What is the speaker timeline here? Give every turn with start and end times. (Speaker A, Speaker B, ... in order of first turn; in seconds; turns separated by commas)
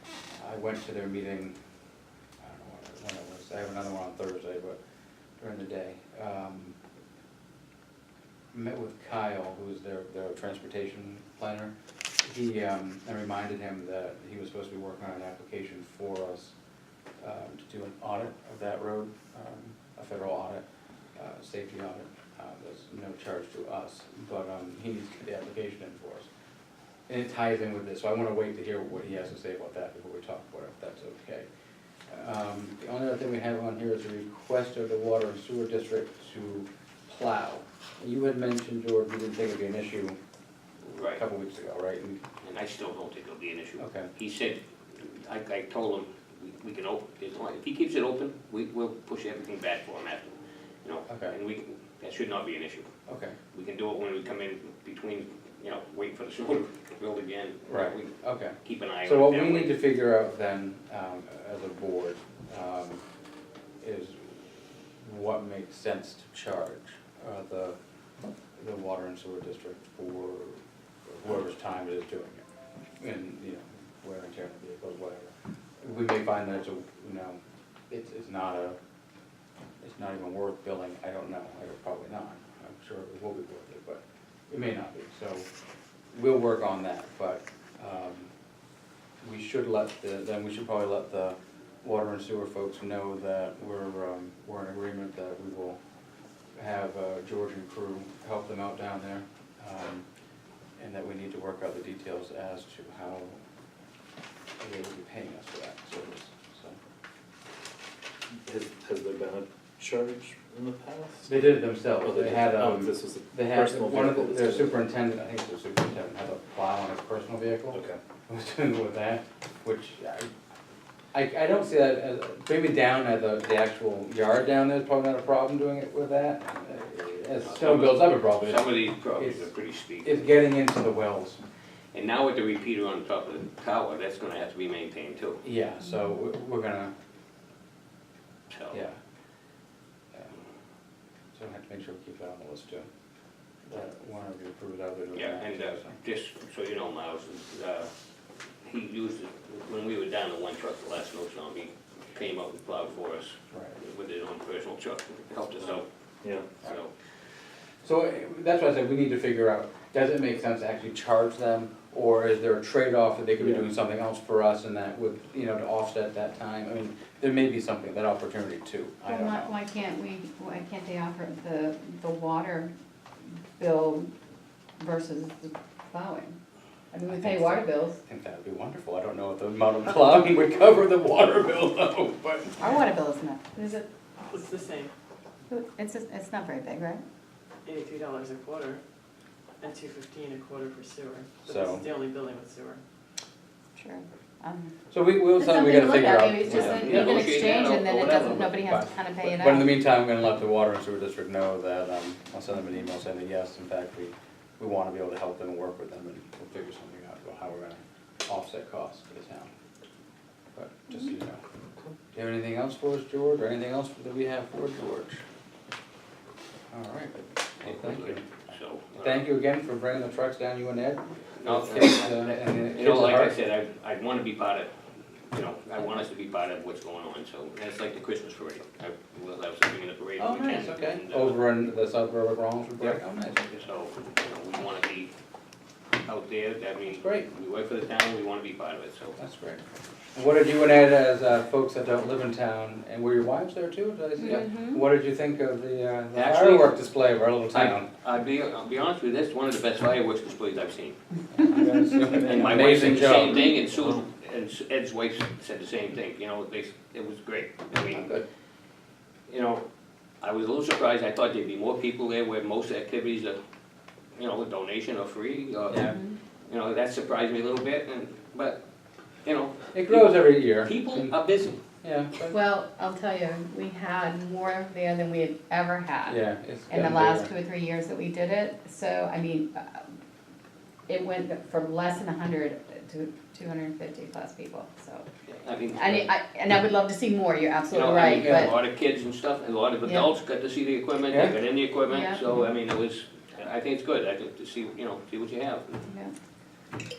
Speaker A: 0.3-1.6, Speaker A: 2.4-4.8, Speaker A: 5.4-6.8, Speaker A: 8.5-16.5, Speaker A: 17.2-26.3, Speaker A: 27.1-31.5, Speaker A: 32.1-40.2, Speaker A: 40.8-42.2, Speaker B: 40.9-41.2, Speaker B: 42.4-52.9, Speaker A: 43.8-44.1, Speaker A: 51.1-51.3, Speaker A: 53.1-53.4, Speaker B: 53.5-58.1, Speaker A: 57.7-63.0, Speaker B: 58.6-59.8, Speaker A: 63.8-64.5, Speaker A: 65.0-67.8, Speaker A: 68.6-72.5, Speaker A: 73.0-77.4, Speaker A: 77.9-78.8, Speaker A: 79.8-85.5, Speaker A: 86.1-88.3, Speaker A: 89.2-95.8, Speaker A: 96.6-100.0, Speaker A: 100.8-103.4, Speaker A: 104.6-106.8, Speaker C: 108.4-114.8, Speaker A: 111.3-120.3, Speaker C: 117.7-118.0, Speaker A: 121.1-129.5, Speaker B: 127.4-130.3, Speaker A: 130.0-131.4, Speaker B: 131.9-135.4, Speaker A: 135.4-136.9, Speaker B: 138.5-138.8, Speaker A: 138.7-139.0, Speaker A: 141.3-142.9, Speaker A: 143.7-146.0, Speaker B: 145.1-147.9, Speaker B: 148.6-155.9, Speaker A: 153.5-153.8, Speaker C: 155.6-156.5, Speaker B: 156.6-156.9, Speaker A: 157.8-169.5, Speaker C: 163.4-163.7, Speaker D: 169.1-172.7, Speaker D: 173.6-174.1, Speaker D: 174.8-176.4, Speaker D: 176.9-178.0, Speaker A: 177.1-182.7, Speaker D: 182.6-183.8, Speaker E: 184.3-184.9, Speaker D: 185.5-187.0, Speaker E: 187.7-188.8, Speaker E: 189.6-192.8, Speaker A: 191.5-191.8, Speaker D: 193.8-194.7, Speaker A: 194.9-197.3, Speaker D: 195.4-199.7, Speaker B: 196.4-198.6, Speaker A: 198.7-209.5, Speaker A: 210.6-211.4, Speaker A: 212.1-215.2, Speaker A: 216.7-218.3, Speaker B: 217.6-219.2, Speaker A: 219.0-223.4, Speaker B: 221.4-224.7, Speaker B: 225.3-231.4, Speaker A: 230.2-233.5, Speaker B: 233.5-235.1, Speaker B: 236.0-239.2, Speaker A: 236.9-237.3, Speaker A: 239.2-239.6, Speaker A: 240.2-247.9, Speaker D: 244.2-244.8, Speaker B: 246.1-246.7, Speaker B: 247.5-251.0, Speaker A: 251.3-253.5, Speaker C: 251.6-254.0, Speaker B: 252.2-258.2, Speaker A: 257.9-258.2, Speaker B: 259.3-259.6, Speaker B: 260.2-263.4, Speaker B: 264.2-268.6, Speaker A: 265.7-265.9, Speaker D: 265.9-266.2, Speaker B: 269.2-271.6, Speaker A: 269.7-271.2, Speaker A: 271.8-272.4, Speaker D: 272.3-279.8, Speaker A: 276.1-277.3, Speaker D: 280.9-285.1, Speaker B: 285.3-286.1, Speaker D: 285.7-288.5, Speaker B: 287.7-295.8, Speaker A: 288.2-288.5, Speaker A: 291.1-291.4, Speaker D: 291.9-292.4, Speaker D: 295.9-296.1